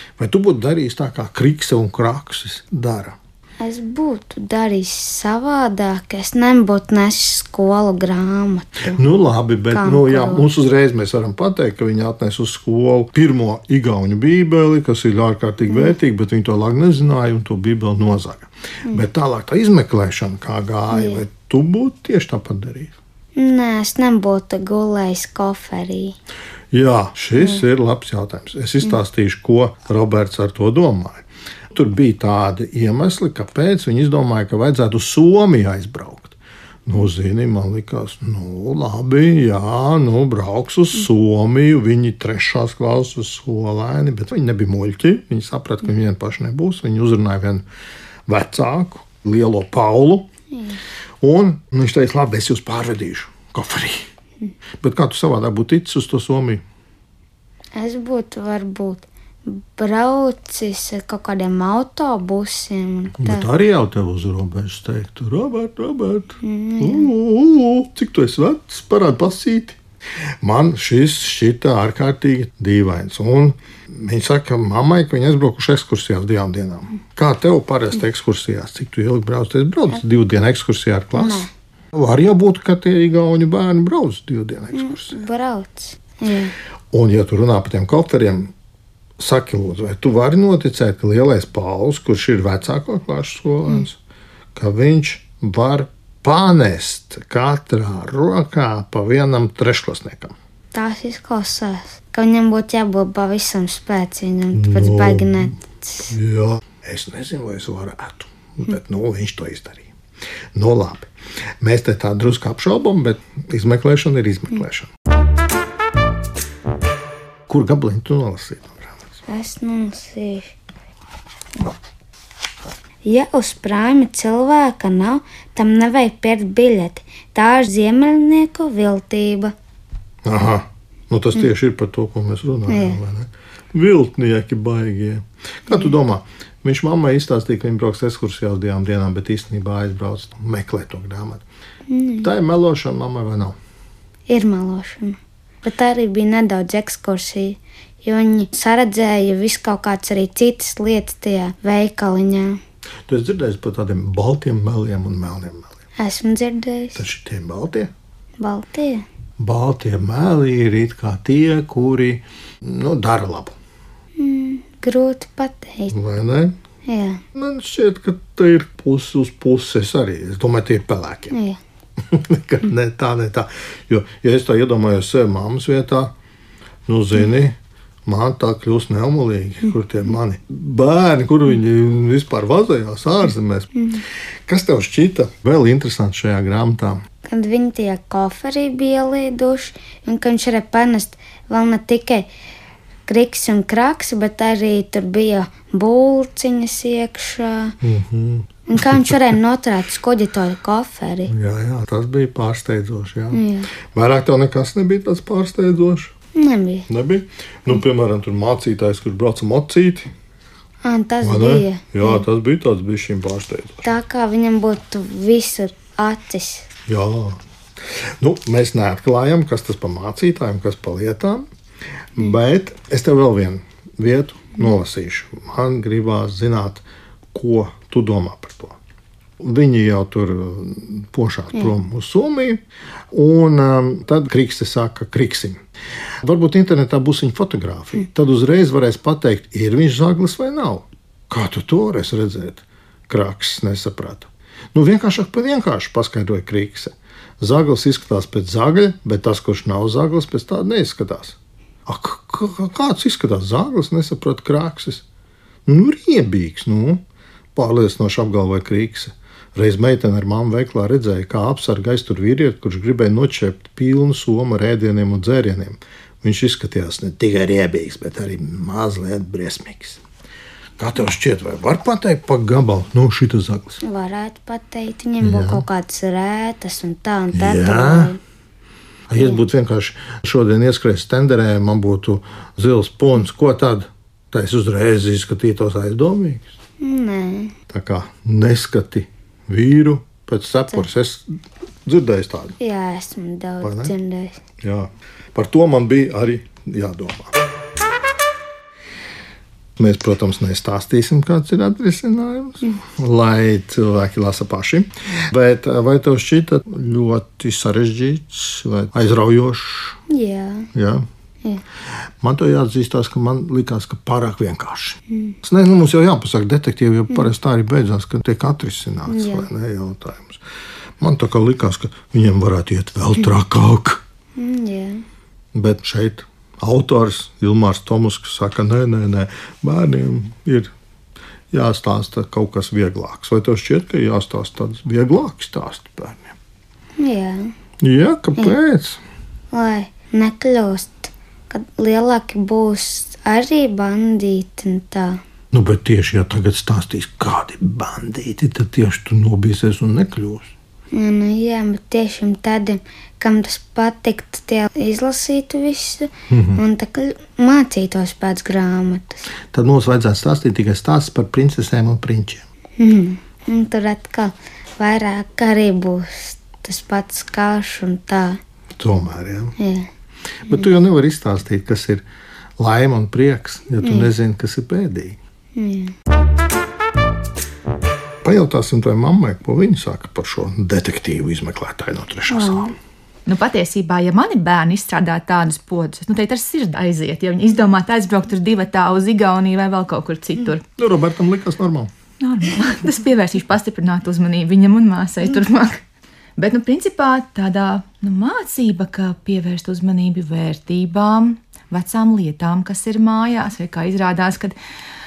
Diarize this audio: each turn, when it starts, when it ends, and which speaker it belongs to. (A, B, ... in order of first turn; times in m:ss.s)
0:00.2-0:03.2 A
0:03.6-0:09.0 B
0:08.9-0:22.9 A
0:09.7-0:10.5 B
0:15.7-0:15.9 B
0:20.9-0:21.2 B
0:23.4-0:26.2 B
0:26.7-0:47.6 A
0:27.4-0:27.6 B
0:48.2-0:50.3 A
0:50.5-0:50.8 B
0:51.2-0:54.1 A
0:54.8-0:56.6 A
0:57.7-1:03.5 B
1:03.2-1:09.8 A
1:06.4-1:07.1 B
1:10.4-1:25.2 A
1:21.1-1:21.5 B
1:24.8-1:26.5 B
1:26.9-1:28.5 A
1:29.2-1:34.0 A
1:34.5-1:40.3 A
1:40.7-1:46.1 B
1:44.5-1:45.5 A
1:46.1-1:49.9 A
1:50.5-1:51.1 A
1:51.6-1:54.9 A
1:57.5-1:59.0 A
1:59.3-2:00.5 B
2:03.0-2:09.5 B
2:10.2-2:21.4 A
2:12.7-2:13.0 B
2:21.9-2:22.3 B
2:22.2-2:23.6 A
2:24.3-2:32.6 B
2:33.1-2:35.7 A
2:36.0-2:37.0 B
2:37.0-2:37.9 A
2:38.4-2:39.0 B
2:39.4-2:43.5 A
2:44.2-2:45.9 B
2:45.9-2:46.5 A
2:46.8-2:47.2 B
2:47.3-2:51.4 A
2:51.3-2:51.6 B
2:52.1-2:56.1 A
2:56.9-3:03.7 A
3:03.8-3:04.0 B
3:04.5-3:07.0 A
3:07.2-3:12.3 B
3:13.1-3:17.8 B
3:17.8-3:19.2 A
3:18.7-3:21.3 B
3:21.3-3:26.1 A
3:23.3-3:23.7 B
3:26.3-3:26.9 B
3:26.9-3:30.1 A
3:30.8-3:32.2 B
3:31.2-3:33.9 A
3:33.8-3:36.7 B
3:36.9-3:37.4 A
3:37.9-3:41.5 A
3:42.2-3:48.8 A
3:49.4-3:55.6 A
3:56.2-4:15.0 A
4:15.7-4:17.0 A
4:17.5-4:30.0 A
4:30.8-4:33.8 A
4:33.8-4:38.2 B
4:35.2-4:35.6 A
4:37.3-4:38.2 A
4:39.1-4:46.5 A
4:39.2-4:39.4 B
4:46.8-4:47.5 B
4:47.7-4:52.6 A
4:52.6-4:54.4 B
4:53.6-4:53.9 A
4:54.6-4:57.3 A
4:59.8-5:10.0 A
5:10.1-5:10.7 B
5:10.7-5:11.0 A
5:12.2-5:20.4 A
5:15.1-5:15.4 B
5:19.1-5:19.5 B
5:21.0-5:24.0 A
5:24.4-5:25.0 B
5:25.5-5:30.7 A
5:31.5-5:36.4 A
5:37.0-5:37.5 B
5:37.8-5:39.0 A
5:39.5-5:45.2 B
5:45.5-5:50.5 A
5:50.9-5:59.2 B
5:56.3-5:56.6 A
5:59.5-6:02.4 A
6:02.8-6:08.4 B
6:08.8-6:09.6 A
6:09.6-6:09.9 B
6:10.5-6:12.0 A
6:12.6-6:15.2 A
6:13.8-6:14.1 B
6:15.6-6:15.9 B
6:18.2-6:22.7 A
6:22.3-6:22.7 B
6:23.2-6:30.6 C
6:30.6-6:31.9 A
6:32.2-6:35.8 C
6:36.4-6:44.6 C